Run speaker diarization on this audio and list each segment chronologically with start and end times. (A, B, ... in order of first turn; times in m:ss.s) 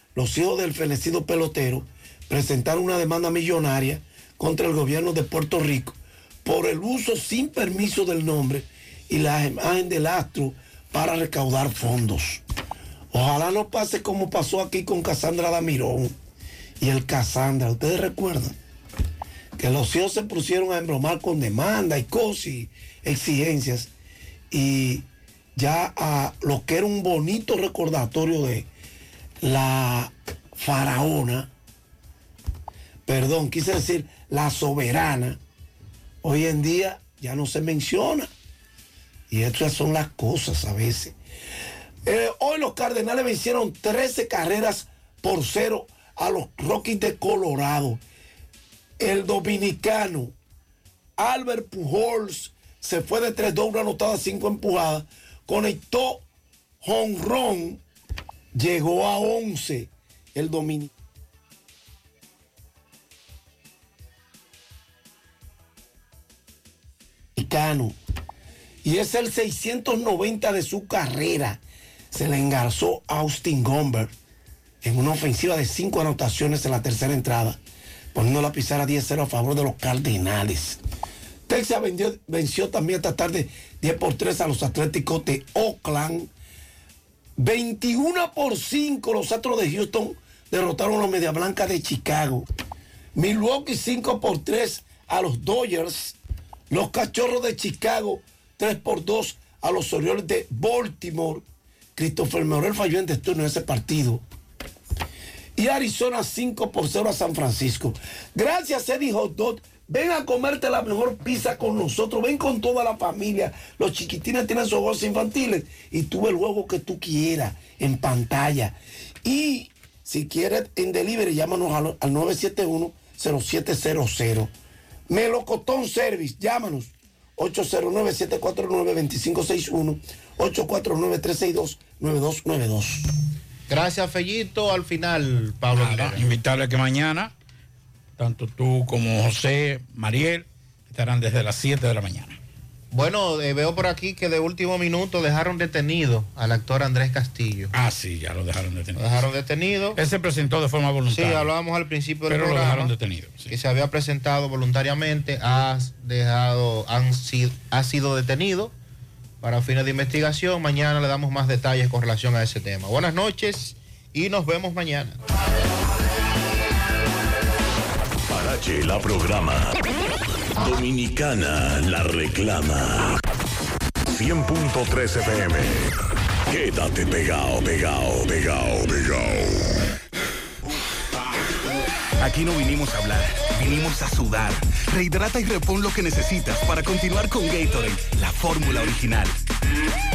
0:00.1-0:12.4 A
0:13.1-0:16.1 A
0:16.8-0:18.5 A
0:19.6-0:23.9 A
0:24.5-0:25.0 A
0:25.6-0:28.7 A
0:29.4-0:31.5 A
0:33.1-0:35.4 A
0:36.2-0:38.3 A
0:39.3-0:41.1 A
0:42.0-0:48.0 A
0:49.0-0:50.3 A
0:51.2-0:56.2 A
0:56.8-0:57.8 A
0:58.5-1:00.9 A
1:07.4-1:08.0 A
1:08.8-1:11.6 A
1:12.1-1:14.1 A
1:14.8-1:17.6 A
1:18.1-1:20.8 A
1:21.5-1:26.3 A
1:27.4-1:32.5 A
1:33.2-1:36.2 A
1:36.7-1:41.4 A
1:42.0-1:44.2 A
1:45.6-2:04.5 A
2:05.1-2:13.0 A
2:13.7-2:16.3 B
2:15.7-2:17.3 C
2:18.2-2:22.4 C
2:22.9-2:27.7 B
2:27.7-2:29.0 C
2:28.9-2:30.0 B
2:30.0-2:31.5 C
2:31.1-2:32.9 B
2:32.3-2:33.5 C
2:33.5-2:38.7 B
2:39.4-2:45.2 B
2:48.3-2:49.8 D
2:50.6-2:53.2 D
2:54.1-2:55.9 D
2:56.5-2:59.7 D
3:02.2-3:09.3 E